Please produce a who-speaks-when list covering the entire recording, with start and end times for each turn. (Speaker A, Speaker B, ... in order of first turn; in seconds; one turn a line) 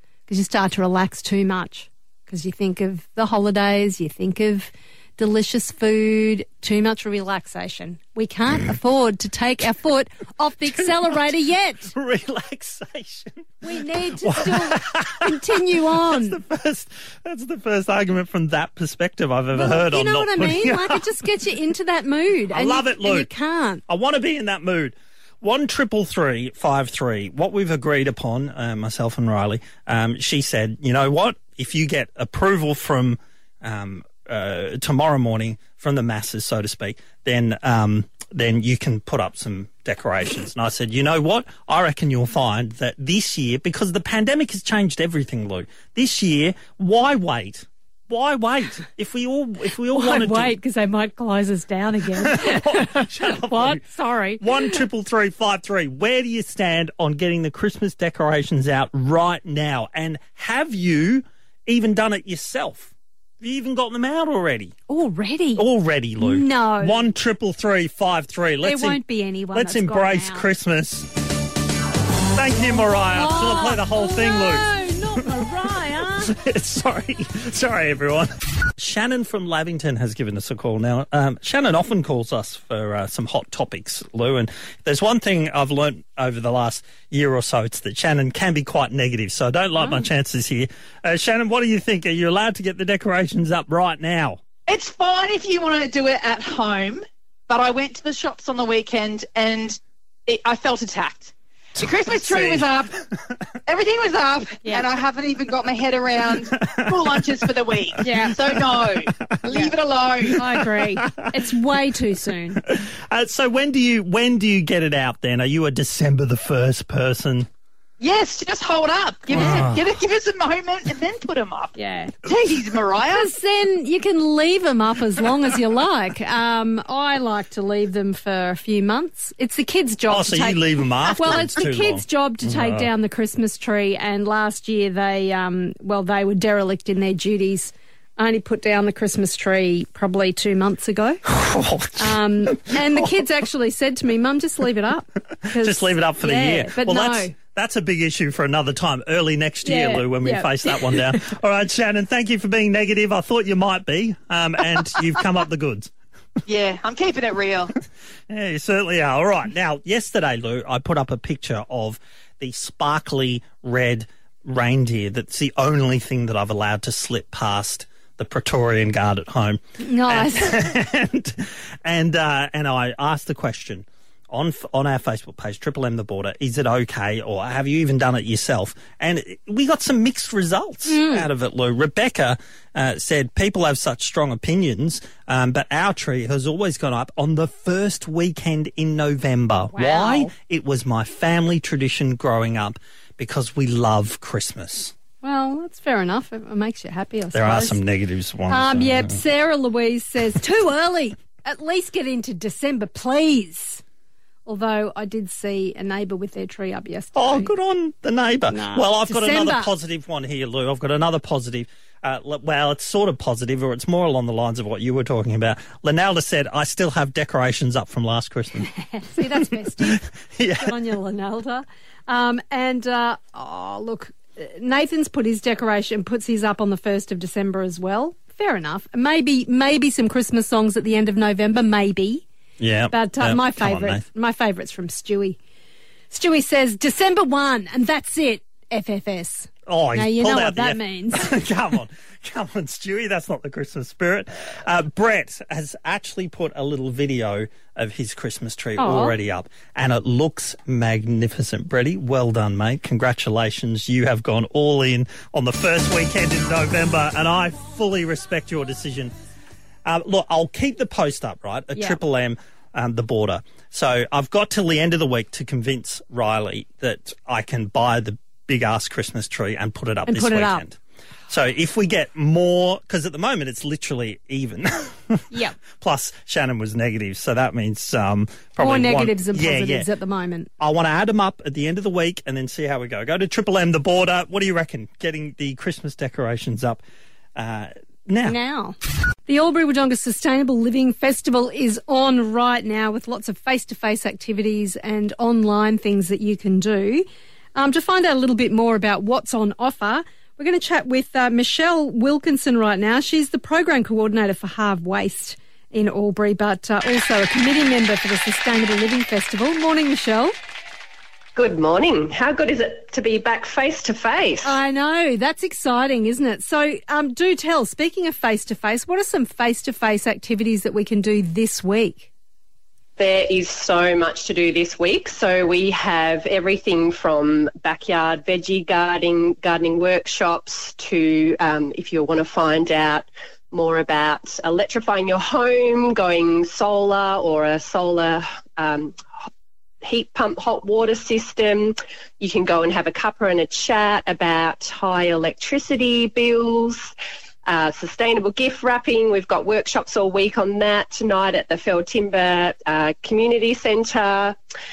Speaker A: 0.3-11.9
Speaker B: 10.7-11.1
Speaker B: 11.9-21.1
Speaker A: 13.6-16.4
Speaker A: 19.5-23.8
Speaker B: 22.5-23.3
Speaker B: 23.9-50.6
Speaker A: 49.9-54.8
Speaker B: 52.2-53.9
Speaker B: 54.4-64.8
Speaker A: 64.9-65.7
Speaker B: 65.6-69.0
Speaker A: 66.2-67.1
Speaker A: 68.6-70.5
Speaker B: 69.5-71.1
Speaker B: 72.3-74.7
Speaker A: 73.1-76.3
Speaker B: 76.2-94.4
Speaker C: 94.7-103.0
Speaker B: 101.8-103.1
Speaker C: 103.7-110.4
Speaker A: 104.6-104.9
Speaker B: 106.4-109.6
Speaker A: 108.0-108.3
Speaker B: 110.3-111.3
Speaker A: 110.3-112.6
Speaker B: 112.6-117.5
Speaker C: 118.0-123.3
Speaker A: 119.3-119.7
Speaker B: 119.3-119.8
Speaker A: 121.8-122.1
Speaker A: 123.1-141.2
Speaker B: 130.1-132.9
Speaker B: 141.3-143.1
Speaker A: 142.0-147.3
Speaker B: 145.5-155.9
Speaker A: 149.6-151.1
Speaker C: 156.5-157.7
Speaker B: 158.3-194.9
Speaker A: 169.8-170.7
Speaker A: 180.9-181.3
Speaker A: 189.7-190.3
Speaker A: 195.2-197.8
Speaker B: 197.3-199.2
Speaker A: 198.5-203.8
Speaker A: 204.4-207.5
Speaker B: 207.2-218.7
Speaker A: 208.5-209.7
Speaker A: 218.7-232.2
Speaker B: 219.8-220.8
Speaker B: 232.6-234.0
Speaker A: 232.9-235.4
Speaker A: 236.1-241.4
Speaker B: 239.7-259.1
Speaker A: 248.8-249.1
Speaker B: 259.9-275.2
Speaker A: 270.1-270.6
Speaker A: 275.3-275.6
Speaker B: 275.8-279.9
Speaker A: 278.6-280.5
Speaker B: 280.6-286.8
Speaker B: 287.4-288.4
Speaker A: 288.2-310.3
Speaker D: 311.4-314.6
Speaker A: 314.4-322.1
Speaker D: 323.0-339.0
Speaker D: 339.8-346.9
Speaker D: 347.5-354.4